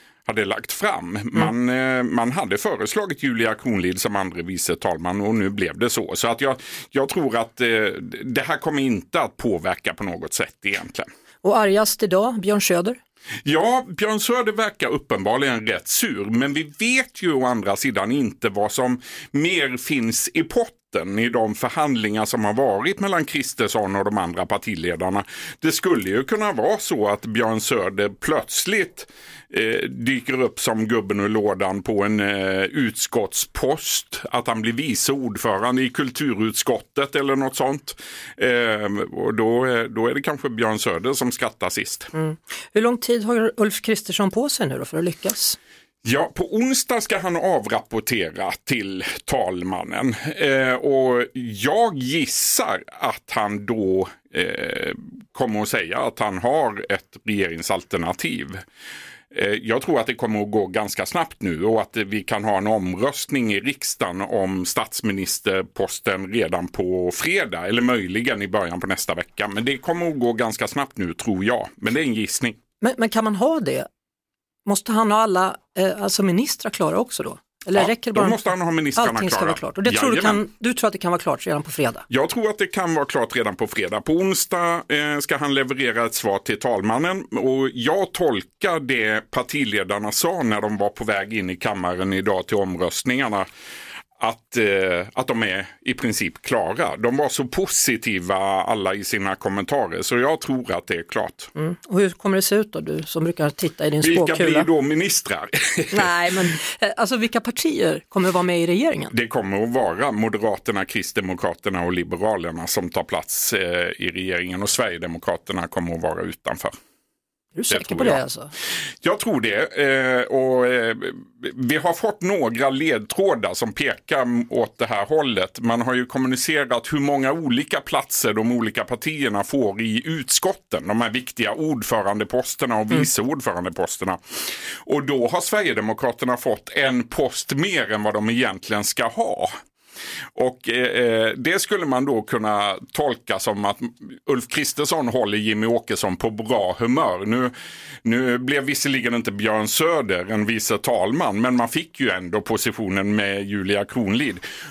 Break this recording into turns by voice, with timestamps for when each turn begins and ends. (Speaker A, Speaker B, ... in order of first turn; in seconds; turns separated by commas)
Speaker A: 0.3-11.1, Speaker B: 11.4-13.0, Speaker A: 13.4-42.1, Speaker B: 42.1-45.6, Speaker A: 46.0-58.6, Speaker A: 59.3-72.6, Speaker B: 72.8-73.9, Speaker B: 74.7-82.0, Speaker A: 77.7-80.4, Speaker A: 82.1-93.5, Speaker A: 94.2-101.5, Speaker B: 101.5-104.7, Speaker A: 104.0-106.4, Speaker B: 105.9-109.1, Speaker A: 109.1-116.7, Speaker B: 117.5-118.5, Speaker A: 117.7-118.2, Speaker A: 119.0-139.5, Speaker A: 140.3-147.5, Speaker A: 148.0-154.4